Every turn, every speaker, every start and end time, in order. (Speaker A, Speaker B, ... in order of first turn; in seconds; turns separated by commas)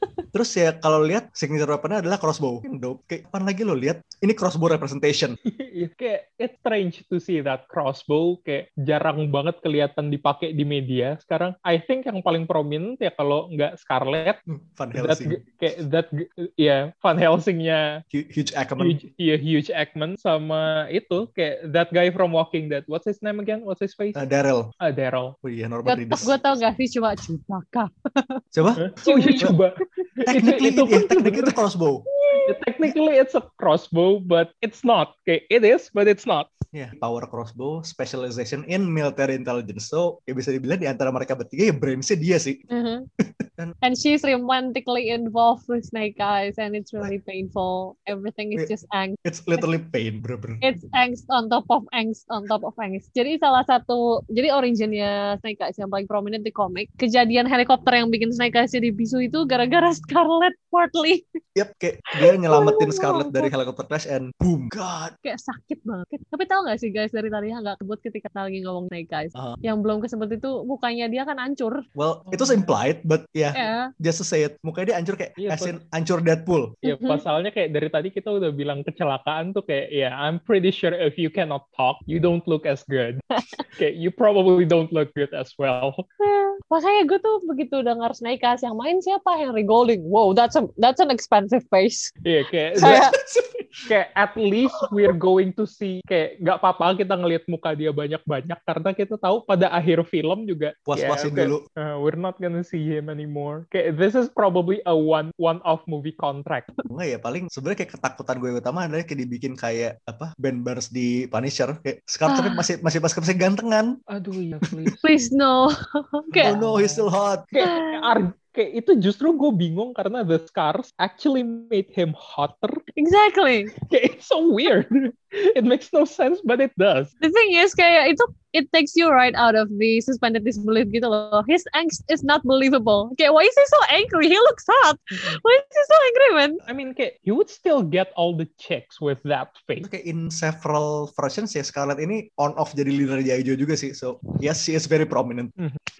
Speaker A: 0.3-5.4, Speaker B: 5.5-14.4, Speaker A: 14.5-15.4, Speaker B: 14.9-18.0, Speaker A: 18.1-19.0, Speaker B: 18.8-24.2, Speaker A: 24.1-24.7, Speaker B: 24.8-25.4, Speaker A: 25.4-26.4, Speaker C: 25.8-28.4, Speaker A: 28.5-29.6, Speaker B: 28.8-31.6, Speaker C: 29.0-29.6, Speaker A: 30.2-32.0, Speaker C: 32.3-32.5, Speaker B: 32.5-36.5, Speaker A: 36.7-42.6, Speaker C: 42.7-43.1, Speaker A: 43.2-43.8, Speaker C: 43.8-49.7, Speaker A: 49.2-50.6, Speaker C: 50.6-61.2, Speaker A: 61.5-65.2, Speaker C: 62.2-63.5, Speaker C: 65.2-71.8, Speaker A: 72.0-76.8, Speaker B: 72.3-72.7, Speaker C: 73.5-73.9, Speaker B: 75.4-75.8, Speaker B: 76.8-86.0, Speaker C: 76.8-77.2, Speaker C: 83.3-83.6, Speaker C: 86.2-92.1, Speaker B: 92.2-93.0, Speaker C: 92.8-93.1, Speaker A: 92.8-93.9, Speaker B: 93.9-106.7, Speaker A: 100.9-101.6, Speaker A: 106.9-114.0, Speaker C: 112.3-112.7, Speaker B: 114.1-115.0, Speaker A: 114.6-114.9, Speaker C: 115.0-116.5, Speaker A: 116.3-117.5, Speaker B: 116.4-122.8, Speaker C: 117.6-118.1, Speaker C: 123.0-123.7, Speaker B: 123.8-127.1, Speaker C: 127.2-136.6, Speaker B: 136.7-139.9, Speaker A: 139.8-145.5